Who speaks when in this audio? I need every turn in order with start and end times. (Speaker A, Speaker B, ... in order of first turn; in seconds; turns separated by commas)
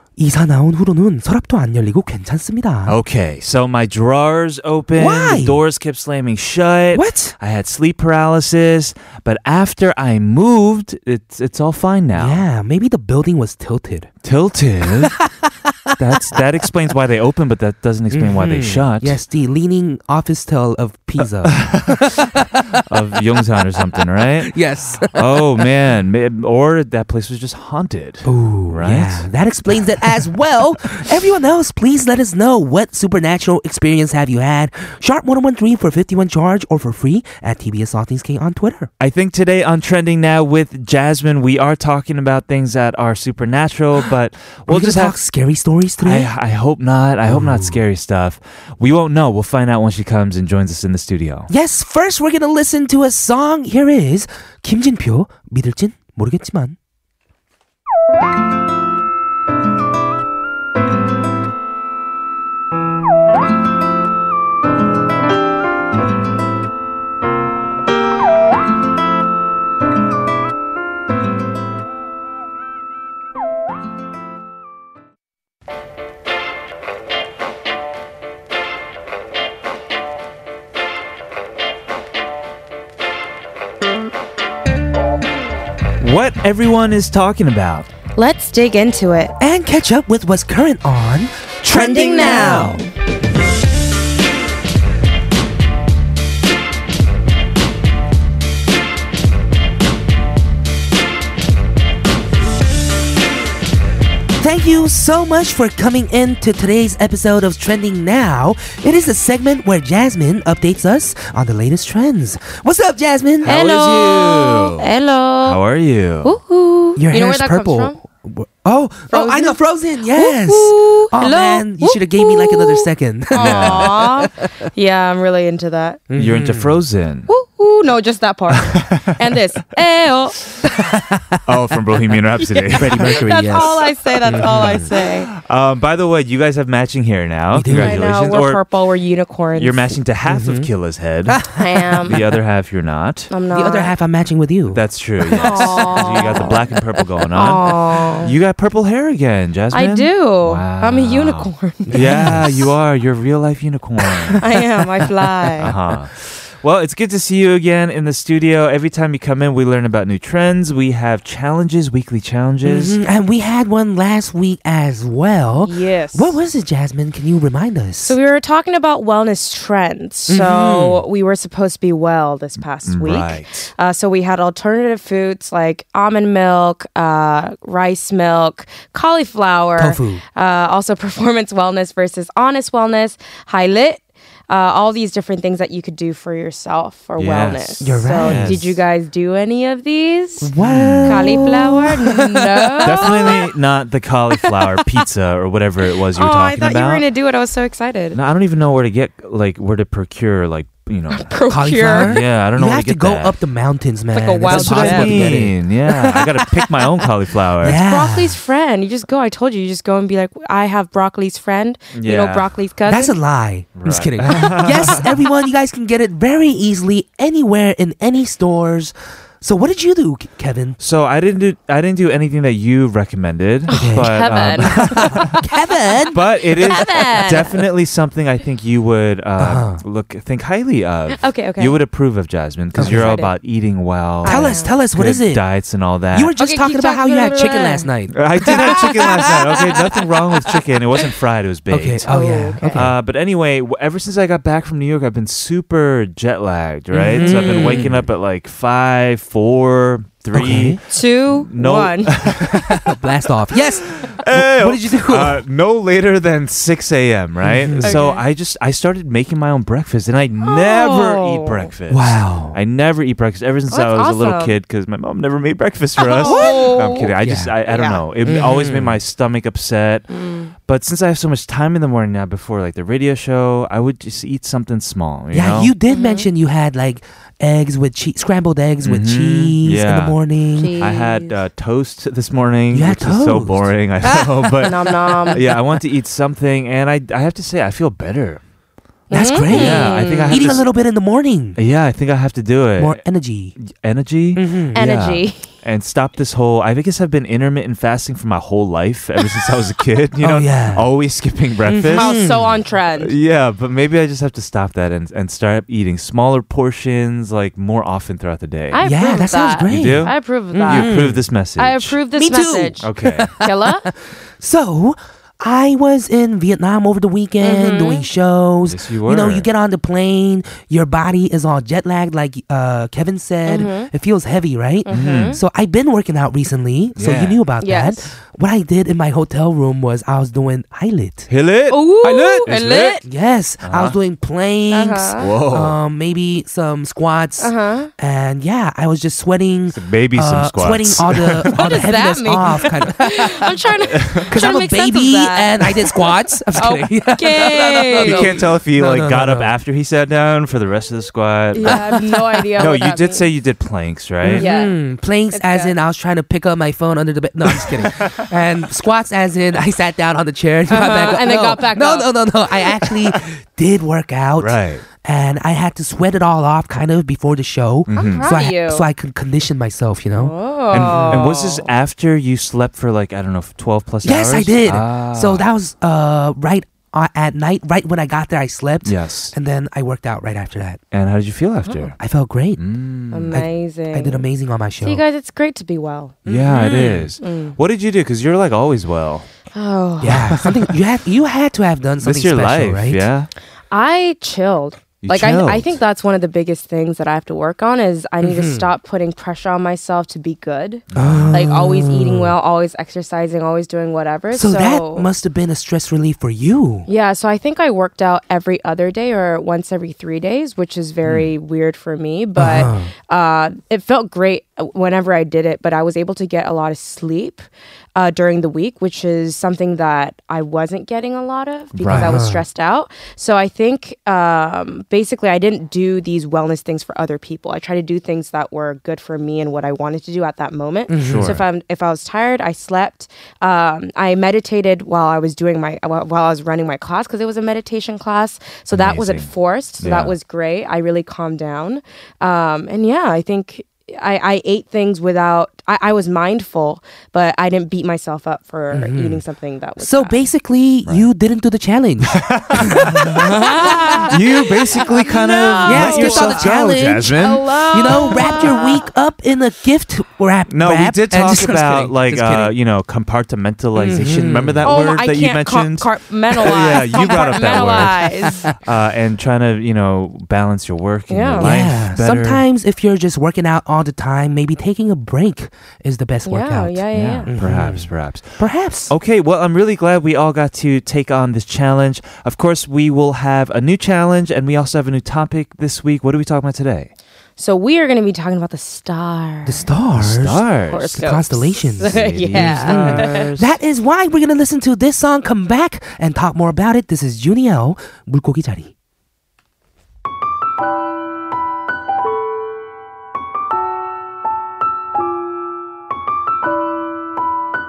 Speaker A: 0.2-3.0, Speaker B: 2.9-12.4, Speaker A: 5.0-5.6, Speaker A: 6.9-7.4, Speaker A: 12.1-14.1, Speaker B: 14.2-15.2, Speaker A: 15.0-16.4, Speaker B: 16.0-19.2, Speaker A: 18.1-22.9, Speaker B: 21.4-24.6, Speaker A: 23.6-25.7, Speaker B: 25.1-29.3, Speaker A: 28.3-38.9, Speaker B: 39.0-45.2, Speaker A: 44.7-46.3, Speaker B: 46.0-51.5, Speaker A: 47.3-47.8, Speaker A: 51.5-56.8, Speaker B: 86.0-87.9, Speaker C: 88.2-89.3, Speaker A: 89.4-91.4, Speaker B: 91.6-92.8, Speaker C: 91.7-92.9, Speaker A: 104.4-113.5, Speaker B: 113.4-114.9, Speaker C: 113.4-115.6, Speaker B: 115.4-116.4, Speaker C: 116.2-118.0, Speaker A: 117.0-124.4, Speaker C: 119.1-119.6, Speaker C: 120.1-126.0, Speaker B: 123.4-124.0, Speaker A: 126.1-126.8, Speaker B: 126.2-127.3, Speaker C: 127.3-130.4, Speaker B: 128.5-129.2, Speaker A: 130.6-131.4, Speaker B: 131.4-138.6, Speaker C: 132.4-135.3, Speaker A: 132.7-134.9, Speaker A: 137.5-138.1, Speaker C: 137.8-140.0, Speaker B: 139.6-141.5, Speaker A: 140.3-140.7, Speaker A: 141.3-142.2, Speaker C: 141.5-142.2, Speaker B: 142.1-143.3, Speaker C: 143.3-143.9, Speaker A: 143.5-146.6, Speaker B: 144.7-154.4, Speaker C: 145.3-146.7, Speaker C: 147.3-148.3, Speaker C: 149.7-152.4, Speaker A: 151.9-152.7, Speaker C: 154.4-155.7, Speaker A: 155.6-155.9, Speaker B: 155.6-163.0, Speaker A: 162.6-168.2, Speaker C: 165.6-166.4, Speaker C: 168.0-190.5, Speaker A: 170.3-171.0, Speaker B: 172.9-173.7, Speaker A: 179.8-180.2, Speaker B: 187.2-188.8, Speaker A: 187.8-188.6, Speaker A: 190.4-193.3, Speaker B: 190.6-191.4, Speaker C: 191.1-193.5, Speaker B: 192.8-197.0, Speaker C: 196.2-198.2, Speaker B: 198.1-201.3, Speaker C: 201.1-202.2, Speaker A: 201.5-205.5, Speaker B: 201.9-203.4, Speaker C: 204.1-205.4, Speaker B: 204.5-207.8, Speaker C: 206.1-206.9, Speaker A: 207.6-208.4, Speaker C: 207.6-213.1, Speaker B: 211.9-212.5, Speaker A: 212.9-220.8, Speaker B: 213.8-215.1, Speaker B: 220.8-225.4, Speaker C: 223.7-225.4, Speaker A: 223.7-226.2, Speaker B: 226.1-236.3, Speaker C: 226.6-227.6, Speaker A: 229.4-229.8, Speaker C: 231.2-231.8, Speaker A: 232.8-233.2, Speaker C: 232.8-233.3, Speaker C: 234.2-234.8, Speaker A: 234.3-235.4, Speaker A: 236.1-239.9, Speaker C: 236.4-237.9, Speaker B: 238.1-242.1, Speaker C: 238.5-239.3, Speaker A: 241.7-242.9, Speaker C: 242.1-242.8, Speaker B: 242.7-253.0, Speaker A: 246.9-248.1, Speaker C: 247.2-247.9, Speaker A: 250.3-250.8, Speaker C: 250.9-252.2, Speaker A: 252.3-255.4, Speaker B: 253.7-270.1, Speaker A: 257.4-258.1, Speaker C: 257.8-258.2, Speaker C: 260.4-261.7, Speaker A: 261.9-262.6, Speaker C: 263.7-264.6, Speaker C: 266.0-267.1, Speaker A: 266.2-267.6, Speaker C: 267.7-268.0, Speaker A: 268.2-269.0, Speaker C: 270.1-270.5, Speaker B: 270.7-275.7, Speaker A: 275.3-280.8, Speaker C: 275.9-276.3, Speaker B: 278.8-280.2, Speaker C: 280.6-281.4, Speaker B: 280.8-288.4, Speaker A: 282.7-284.5, Speaker C: 284.6-285.4, Speaker C: 289.1-290.6, Speaker A: 289.1-291.6, Speaker B: 289.5-290.7, Speaker B: 291.6-293.0, Speaker A: 292.8-293.5, Speaker B: 293.6-302.3, Speaker A: 294.4-294.8, Speaker C: 294.8-295.5, Speaker A: 300.2-300.9, Speaker A: 301.7-302.5, Speaker C: 301.9-303.1, Speaker B: 303.0-308.8, Speaker C: 308.7-311.0, Speaker A: 308.8-311.2, Speaker B: 309.7-312.0, Speaker C: 311.6-313.9, Speaker A: 312.2-313.7, Speaker B: 312.8-313.4, Speaker A: 314.4-331.3, Speaker C: 317.4-318.1, Speaker B: 318.6-319.5, Speaker C: 323.5-323.9, Speaker C: 324.9-325.4, Speaker B: 324.9-325.4, Speaker B: 327.0-327.4, Speaker C: 327.6-328.1, Speaker B: 331.3-333.0, Speaker C: 331.7-333.0, Speaker A: 333.1-343.6, Speaker B: 333.6-334.0, Speaker C: 334.7-335.3, Speaker B: 335.2-335.8, Speaker C: 337.4-337.9, Speaker B: 339.7-341.8, Speaker C: 341.5-348.4, Speaker B: 343.9-344.3, Speaker A: 344.2-349.5, Speaker B: 347.9-351.9, Speaker C: 351.5-353.3, Speaker B: 352.6-354.4, Speaker A: 354.2-371.3, Speaker C: 354.4-354.8, Speaker C: 355.3-355.8, Speaker B: 357.7-358.2, Speaker C: 360.7-362.1, Speaker B: 364.4-364.8, Speaker B: 367.9-368.3, Speaker C: 367.9-368.9, Speaker C: 370.2-371.7, Speaker B: 370.7-375.5, Speaker A: 374.0-380.8, Speaker B: 378.9-379.4, Speaker B: 380.9-381.9, Speaker C: 381.6-381.9, Speaker A: 382.0-382.6, Speaker B: 382.6-383.4, Speaker C: 383.1-384.3, Speaker A: 383.3-385.0, Speaker C: 384.8-387.6, Speaker A: 386.3-387.1, Speaker B: 386.3-389.3, Speaker C: 389.5-390.4, Speaker A: 390.0-393.1, Speaker B: 390.3-390.7, Speaker B: 392.0-393.3, Speaker C: 393.7-405.1, Speaker B: 395.0-395.8, Speaker A: 398.2-398.7, Speaker B: 400.9-401.5, Speaker A: 400.9-402.4, Speaker A: 404.3-406.9, Speaker C: 406.9-450.3, Speaker B: 411.1-411.3, Speaker A: 412.4-412.9, Speaker B: 421.8-422.2, Speaker A: 421.9-422.4, Speaker A: 430.9-431.4, Speaker B: 431.0-431.4, Speaker B: 438.7-440.1, Speaker A: 448.7-449.2, Speaker A: 449.8-454.1, Speaker B: 452.1-458.4, Speaker C: 452.6-456.5, Speaker A: 455.6-462.5, Speaker C: 457.2-458.9, Speaker B: 460.5-472.4, Speaker A: 463.8-464.7, Speaker C: 464.6-468.5, Speaker A: 467.0-468.5, Speaker C: 471.1-471.6, Speaker A: 471.4-477.9, Speaker C: 476.3-477.3, Speaker B: 476.9-486.9, Speaker A: 478.4-478.9, Speaker C: 487.4-489.7, Speaker A: 489.4-498.7, Speaker B: 489.9-491.0, Speaker C: 490.7-493.3, Speaker B: 491.8-493.6